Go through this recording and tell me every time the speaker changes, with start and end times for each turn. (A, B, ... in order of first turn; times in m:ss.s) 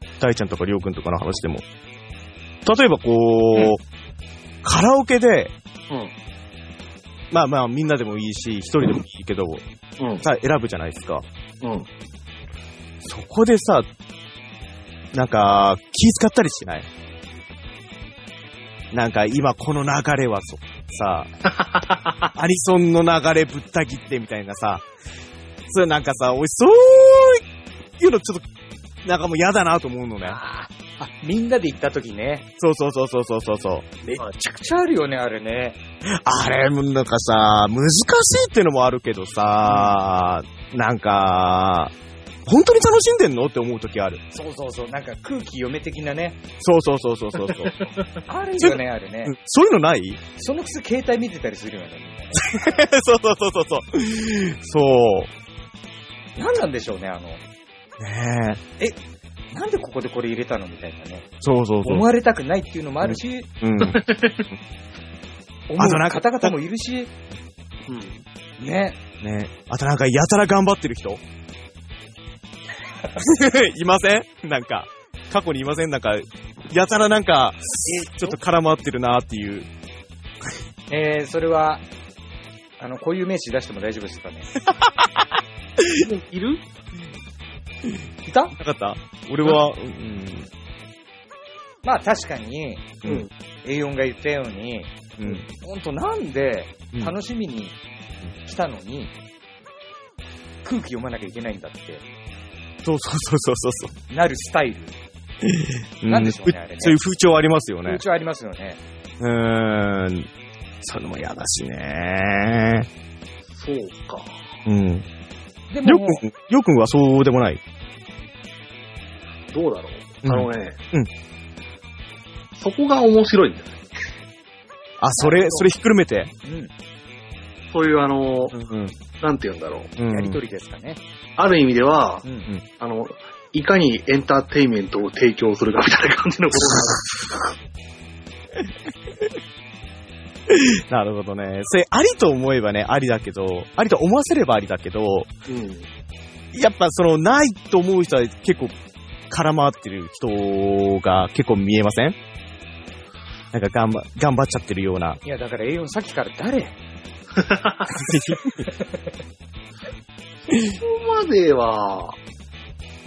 0:00.2-0:01.6 A
0:02.6-0:03.8 A
0:04.6-0:05.5 A
0:07.3-0:09.6 A
0:10.0-0:10.2 B
0:10.2-0:11.2 A
0:11.6-0:11.9 B
0:13.0-0:13.9 A
0:15.1-0:16.9 A
0:18.9-0:21.3 A
0:21.6-0:22.0 B
0:22.3-0:24.9 A
0:25.7-0:27.4 A
0:28.0-0:28.5 A
0:29.0-0:30.4 A
0:30.2-0:32.5 C
0:32.6-0:33.9 A
0:34.0-0:35.8 C
0:36.0-0:41.9 A
0:39.6-0:40.0 C
0:42.4-0:44.2 A
0:44.3-0:46.4 C
0:46.6-0:47.7 A
0:48.3-0:49.3 C
0:48.6-0:50.2 A
0:50.4-0:52.5 C
0:52.4-0:55.3 A
0:56.4-0:57.4 C
0:58.0-0:58.6 A
0:59.5-1:01.3 C
1:01.4-1:02.0 A
1:01.8-1:03.5 C
1:03.0-1:04.0 A
1:03.8-1:04.5 B
1:05.7-1:07.1 C
1:05.8-1:06.5 A
1:07.9-1:08.2 B
1:08.6-1:09.0 C
1:09.2-1:11.2 A
1:13.2-1:19.7 A
1:20.9-1:21.8 C
1:22.8-1:24.5 C
1:24.7-1:26.0 A
1:25.9-1:26.6 B
1:28.2-1:28.5 C
1:28.5-1:30.5 A
1:31.8-1:32.9 C
1:33.6-1:37.8 C
1:35.2-1:35.4 A
1:38.4-1:39.1 C
1:40.6-1:42.0 C
1:42.8-1:43.9 A
1:44.1-1:44.9 C
1:45.4-1:48.0 A
1:46.0-1:47.0 C
1:47.8-1:48.8 C
1:49.2-1:50.3 A
1:50.8-1:52.9 A
1:53.5-1:54.4 B
1:54.6-1:55.1 A
1:55.7-1:56.2 C
1:55.8-1:57.6 A
1:59.5-2:00.8 B
2:00.2-2:01.1 A
2:02.6-2:03.8 B
2:05.0-2:06.3 A
2:05.2-2:05.6 C
2:06.4-2:06.7 C
2:07.7-2:08.5 B
2:08.5-2:09.0 A
2:09.2-2:09.9 B
2:10.0-2:10.4 A
2:10.1-2:11.0 C
2:11.4-2:12.2 B
2:12.2-2:12.5 C
2:12.8-2:17.5 B
2:20.5-2:25.3 A
2:25.5-2:25.9 B
2:26.5-2:28.7 A
2:29.3-2:32.2 A
2:33.5-2:35.2 A
2:35.2-2:36.8 C
2:37.4-2:37.9 B
2:37.9-2:38.6 A
2:38.7-2:39.1 C
2:40.5-2:40.8 A
2:40.6-2:42.2 B